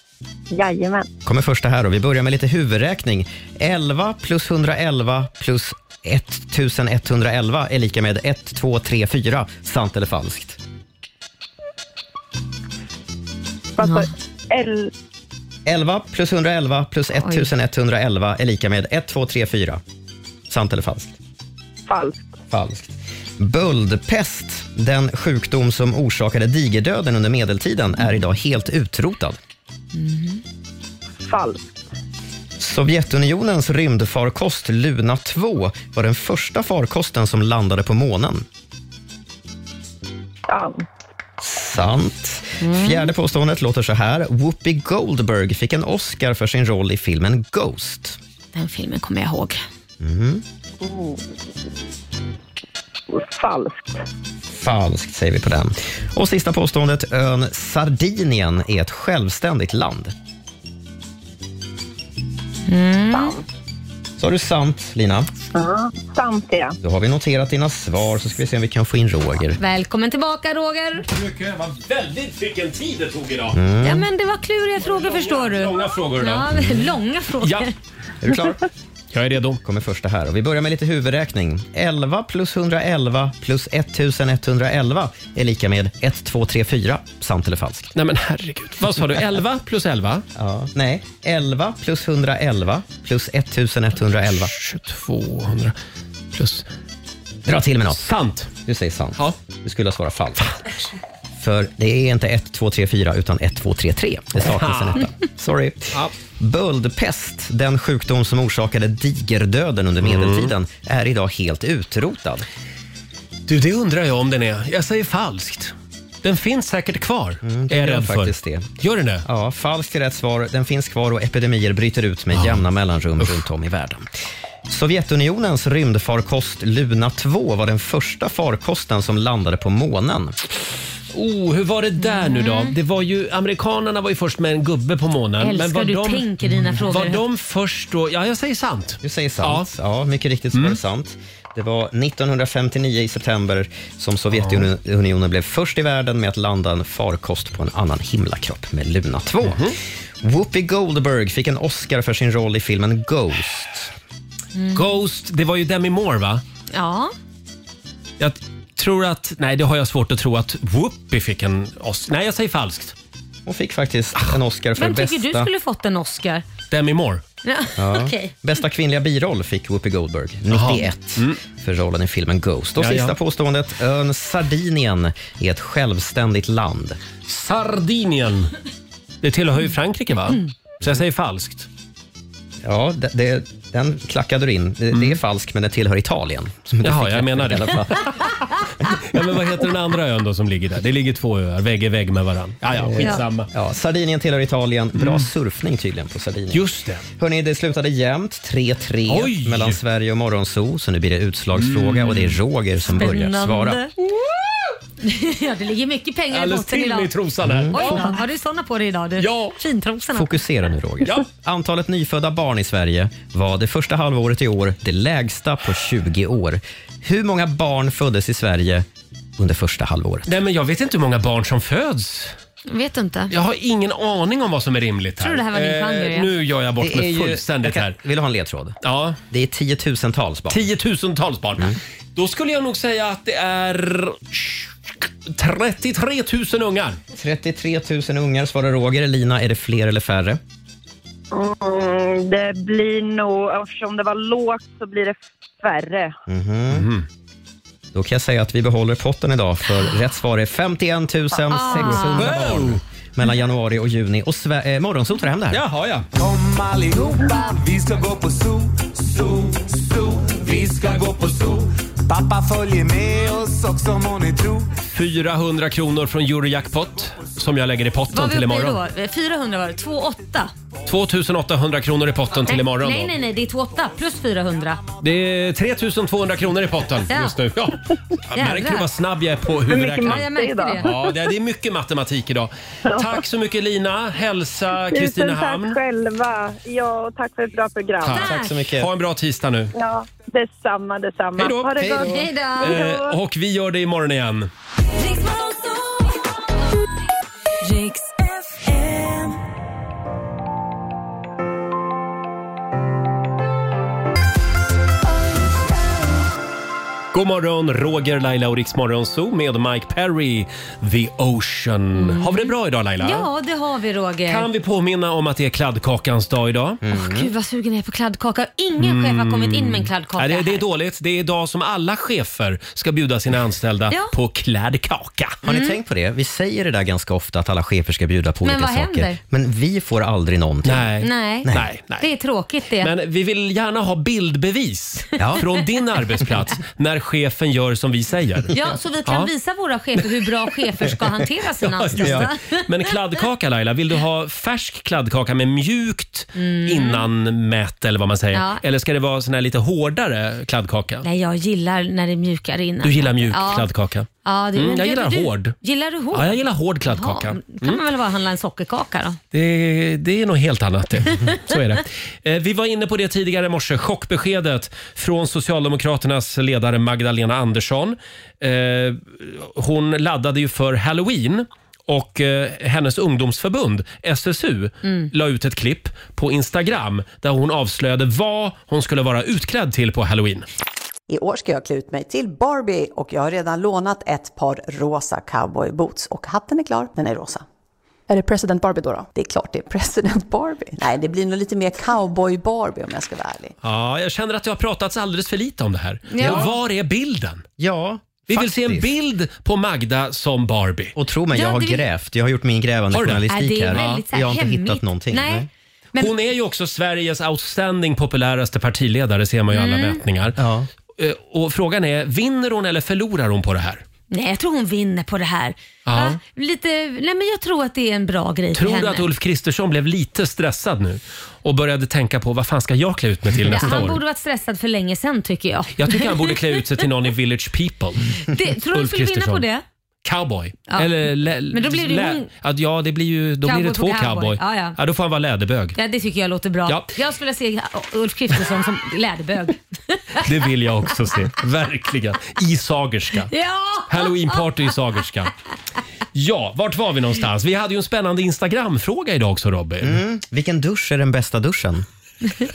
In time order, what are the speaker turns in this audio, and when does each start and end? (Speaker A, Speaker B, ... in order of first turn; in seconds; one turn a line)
Speaker A: 0.5-1.1
Speaker B: 1.2-10.6
Speaker A: 13.8-14.9
Speaker B: 15.7-19.8
Speaker C: 17.2-17.5
Speaker B: 20.5-21.2
Speaker A: 21.9-22.3
Speaker B: 22.5-29.4
Speaker C: 29.9-30.4
Speaker A: 31.3-31.6
Speaker B: 32.6-38.5
Speaker A: 40.5-40.8
Speaker B: 41.4-48.2
Speaker C: 42.6-43.1
Speaker C: 48.5-49.6
Speaker B: 50.0-50.4
Speaker A: 50.8-51.2
Speaker A: 53.1-54.0
Speaker B: 54.5-60.1
Speaker C: 62.7-63.4
Speaker A: 63.1-63.4
Speaker B: 64.2-65.3
Speaker A: 65.5-66.8
Speaker B: 66.8-69.6
Speaker C: 69.6-71.1
Speaker D: 71.1-73.6
Speaker B: 73.5-74.1
Speaker C: 73.8-77.7
Speaker D: 74.8-76.8
Speaker D: 77.4-77.7
Speaker B: 78.2-78.6
Speaker D: 79.1-79.6
Speaker B: 79.6-87.9
Speaker D: 88.0-90.2
Speaker B: 90.4-94.5
Speaker D: 94.2-95.8
Speaker D: 96.3-96.7
Speaker B: 97.5-98.0
Speaker D: 97.9-98.5
Speaker B: 98.6-100.5
Speaker B: 101.4-112.5
Speaker D: 104.4-105.0
Speaker D: 110.0-110.5
Speaker D: 113.5-119.2
Speaker B: 117.4-118.7
Speaker B: 119.2-124.1
Speaker D: 122.3-122.7
Speaker D: 123.2-123.5
Speaker B: 124.7-130.4
Speaker D: 131.1-139.7
Speaker C: 132.0-132.7
Speaker C: 135.4-137.2
Speaker B: 139.0-153.9
Speaker D: 144.3-144.7
Speaker D: 149.4-149.8
Speaker C: 154.6-154.8
Speaker D: 154.7-156.4
Speaker C: 156.7-157.1
Speaker D: 158.2-162.9
Speaker B: 163.5-165.5
Speaker C: 164.8-166.4
Speaker D: 166.7-167.2
Speaker C: 167.4-168.3
Speaker B: 167.8-177.0
Speaker D: 170.5-171.4
Speaker D: 172.8-173.2
Speaker D: 177.2-178.5
Speaker D: 179.2-181.7
Speaker B: 182.6-188.2
Speaker D: 186.8-188.3
Speaker D: 188.8-193.5
Speaker B: 192.7-196.6
Speaker D: 195.0-195.3
Speaker D: 196.5-197.0
Speaker B: 197.2-203.8
Speaker D: 199.1-199.8
Speaker D: 201.6-202.4
Speaker C: 202.8-203.9
Speaker D: 204.2-204.5
Speaker C: 205.0-207.1
Speaker D: 206.3-208.2
Speaker B: 207.4-208.0
Speaker C: 207.7-210.4
Speaker D: 209.2-209.6
Speaker B: 210.1-218.9
Speaker B: 219.4-220.3
Speaker D: 220.3-222.3
Speaker C: 222.7-223.3
Speaker D: 223.3-228.0
Speaker C: 225.2-226.3
Speaker B: 226.8-228.8
Speaker D: 228.8-229.2
Speaker B: 229.3-230.6
Speaker D: 230.5-237.0
Speaker B: 237.1-240.4
Speaker A: 241.3-246.2
Speaker B: 246.3-246.9
Speaker D: 246.7-247.1
Speaker B: 247.9-255.6
Speaker C: 251.5-252.3
Speaker D: 251.8-252.8
Speaker D: 255.5-256.1
Speaker E: 256.1-264.7
Speaker D: 264.9-268.8
Speaker C: 268.1-270.5
Speaker D: 270.9-273.1
Speaker C: 272.5-274.8
Speaker D: 275.0-280.3
Speaker C: 277.1-277.4
Speaker C: 278.4-278.9
Speaker A: 279.7-280.9
Speaker C: 280.0-280.9
Speaker D: 280.8-285.8
Speaker A: 282.9-283.2
Speaker A: 284.9-288.2
Speaker D: 288.0-289.7
Speaker C: 288.2-288.5
Speaker B: 288.2-288.9
Speaker A: 289.7-293.1
Speaker D: 291.4-291.9
Speaker B: 291.8-292.1
Speaker C: 291.9-292.8
Speaker D: 292.6-294.5
Speaker D: 307.1-313.3
Speaker C: 312.0-314.5
Speaker D: 314.3-316.8
Speaker B: 316.8-317.3
Speaker C: 316.9-320.6
Speaker D: 318.8-325.4
Speaker B: 325.4-330.9
Speaker C: 325.5-325.8
Speaker C: 328.4-329.2
Speaker D: 330.6-332.1
Speaker C: 331.0-331.5
Speaker C: 332.0-332.9
Speaker D: 332.8-338.5
Speaker B: 335.2-335.4
Speaker C: 338.5-342.6
Speaker D: 339.1-339.3
Speaker D: 341.6-351.1
Speaker B: 341.9-342.3
Speaker C: 346.4-347.1
Speaker C: 348.3-348.6
Speaker C: 351.0-353.7
Speaker D: 352.8-355.6
Speaker C: 354.2-359.2
Speaker D: 356.1-357.8
Speaker D: 359.3-380.5
Speaker F: 381.1-387.4
Speaker F: 388.1-393.5
Speaker D: 393.6-397.4
Speaker C: 396.1-396.5
Speaker B: 396.2-396.5
Speaker B: 397.6-398.9
Speaker D: 398.3-400.9
Speaker B: 401.0-405.5
Speaker C: 401.3-401.9
Speaker D: 402.9-404.0
Speaker C: 403.3-406.1
Speaker D: 406.0-410.4
Speaker C: 409.5-410.0
Speaker B: 410.4-410.7
Speaker D: 411.0-413.8
Speaker C: 414.1-419.1
Speaker D: 415.9-416.2
Speaker D: 418.6-424.0
Speaker C: 423.5-426.9
Speaker D: 425.8-429.4
Speaker C: 428.3-429.6
Speaker D: 430.0-435.8
Speaker C: 431.5-432.3
Speaker C: 433.4-434.8
Speaker C: 435.8-440.2
Speaker D: 436.7-436.9
Speaker D: 440.2-443.3
Speaker C: 443.3-444.4
Speaker D: 443.9-445.3
Speaker D: 446.1-450.0
Speaker B: 449.8-451.9